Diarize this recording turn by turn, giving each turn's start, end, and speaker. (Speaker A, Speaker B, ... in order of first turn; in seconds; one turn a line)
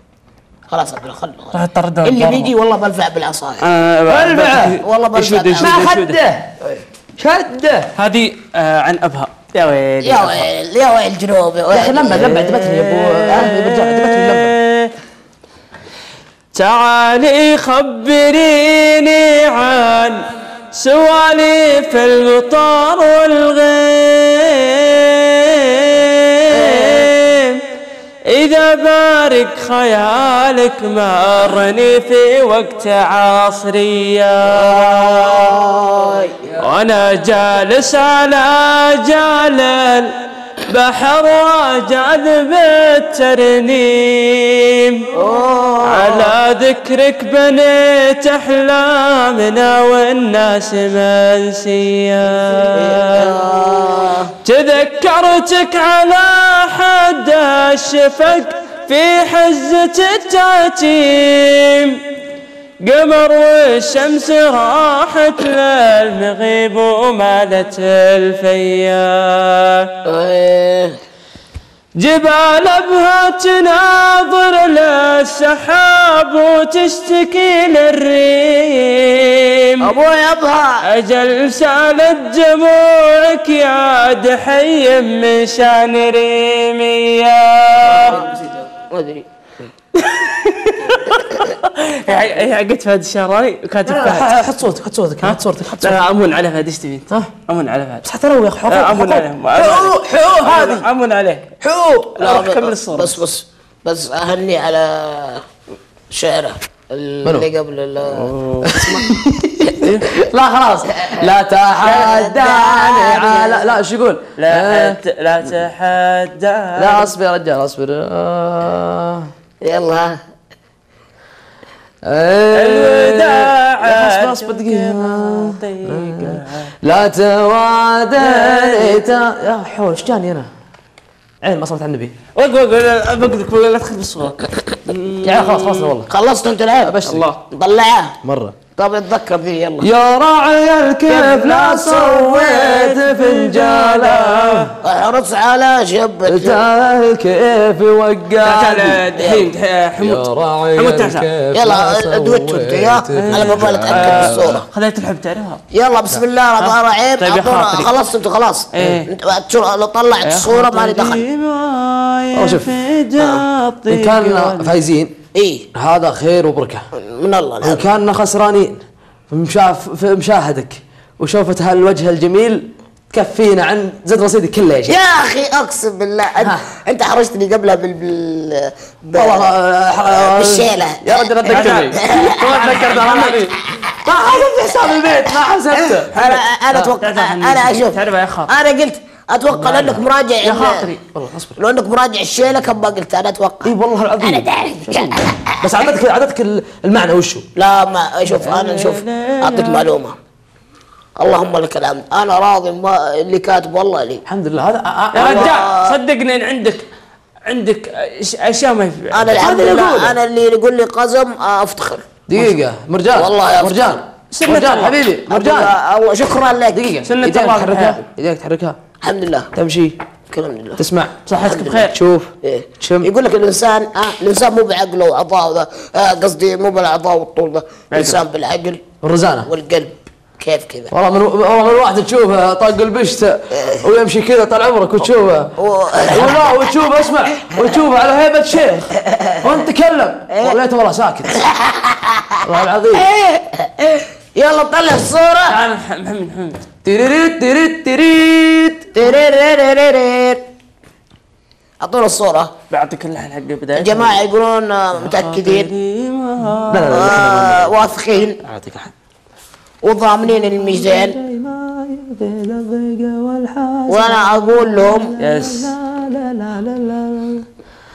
Speaker A: 0.7-3.6
Speaker B: 1.5-2.5
Speaker B: 3.6-6.2
Speaker C: 4.1-4.8
Speaker A: 4.8-5.9
Speaker C: 5.6-6.5
Speaker C: 7.2-7.9
Speaker B: 8.0-10.5
Speaker A: 10.0-12.4
Speaker C: 11.7-14.5
Speaker B: 12.1-14.9
Speaker A: 13.3-13.8
Speaker B: 16.5-27.6
Speaker A: 26.5-27.1
Speaker B: 28.3-35.5
Speaker A: 34.5-36.5
Speaker B: 36.6-45.0
Speaker A: 45.1-46.3
Speaker B: 45.8-53.4
Speaker A: 52.7-54.3
Speaker B: 54.4-62.0
Speaker B: 62.8-69.9
Speaker A: 70.0-71.0
Speaker B: 72.0-79.9
Speaker A: 79.8-80.8
Speaker B: 80.8-88.3
Speaker A: 88.9-89.2
Speaker B: 89.9-94.4
Speaker C: 93.8-96.0
Speaker B: 95.2-98.0
Speaker C: 98.0-100.9
Speaker B: 98.7-101.5
Speaker C: 101.6-102.2
Speaker B: 102.2-103.2
Speaker A: 102.2-105.4
Speaker A: 106.1-109.2
Speaker C: 108.2-115.0
Speaker B: 108.4-108.7
Speaker B: 109.8-110.0
Speaker A: 111.8-113.7
Speaker B: 114.4-117.1
Speaker C: 116.8-119.3
Speaker A: 119.6-120.2
Speaker C: 122.0-130.5
Speaker B: 122.5-126.7
Speaker B: 128.2-129.0
Speaker C: 131.4-132.1
Speaker B: 132.3-135.9
Speaker C: 135.2-136.1
Speaker A: 136.1-138.1
Speaker C: 136.8-137.2
Speaker B: 137.1-137.3
Speaker C: 138.2-138.6
Speaker A: 138.7-139.9
Speaker C: 139.8-144.7
Speaker B: 141.1-144.7
Speaker A: 144.8-146.6
Speaker C: 146.2-149.0
Speaker B: 148.4-151.3
Speaker A: 149.2-149.5
Speaker C: 150.0-154.6
Speaker A: 151.5-154.6
Speaker B: 153.2-155.6
Speaker A: 155.7-161.2
Speaker B: 156.6-157.9
Speaker B: 158.7-159.1
Speaker B: 160.2-164.7
Speaker C: 162.3-162.7
Speaker A: 163.2-163.4
Speaker C: 163.9-165.1
Speaker A: 165.3-165.7
Speaker C: 165.7-166.8
Speaker A: 166.9-167.9
Speaker C: 167.6-174.9
Speaker A: 174.9-182.3
Speaker C: 176.4-176.7
Speaker C: 179.1-186.1
Speaker B: 181.5-183.5
Speaker A: 185.9-190.9
Speaker B: 186.1-186.4
Speaker B: 187.0-188.5
Speaker B: 189.6-191.0
Speaker C: 191.1-191.6
Speaker A: 191.6-195.2
Speaker C: 193.6-197.4
Speaker A: 197.6-200.2
Speaker B: 198.3-199.9
Speaker A: 201.2-204.2
Speaker C: 204.2-205.5
Speaker B: 205.1-206.8
Speaker A: 205.1-206.0
Speaker B: 207.4-209.4
Speaker A: 209.1-212.5
Speaker C: 209.3-210.2
Speaker C: 212.3-215.7
Speaker A: 213.1-214.0
Speaker B: 214.3-215.0
Speaker A: 215.3-216.9
Speaker C: 216.7-218.8
Speaker B: 217.0-218.0
Speaker A: 219.0-219.5
Speaker C: 219.5-219.9
Speaker A: 220.3-220.8
Speaker C: 220.8-221.1
Speaker B: 221.2-221.9
Speaker A: 221.4-221.9
Speaker C: 221.9-223.1
Speaker A: 222.4-228.8
Speaker B: 227.9-228.2
Speaker C: 229.0-229.5
Speaker A: 229.4-230.9
Speaker C: 230.9-235.5
Speaker A: 235.6-236.6
Speaker C: 236.1-238.9
Speaker A: 239.1-239.4
Speaker C: 239.4-241.4
Speaker A: 240.3-240.6
Speaker A: 241.4-242.4
Speaker C: 242.4-243.1
Speaker A: 243.0-245.6
Speaker B: 245.5-246.6
Speaker C: 246.8-248.9
Speaker A: 248.9-250.4
Speaker A: 251.8-252.5
Speaker B: 252.7-254.2
Speaker A: 253.7-255.7
Speaker B: 255.0-257.1
Speaker C: 256.7-257.8
Speaker A: 256.9-258.4
Speaker B: 258.4-258.9
Speaker A: 259.8-261.2
Speaker C: 260.5-267.4
Speaker A: 263.9-265.1
Speaker B: 265.2-265.7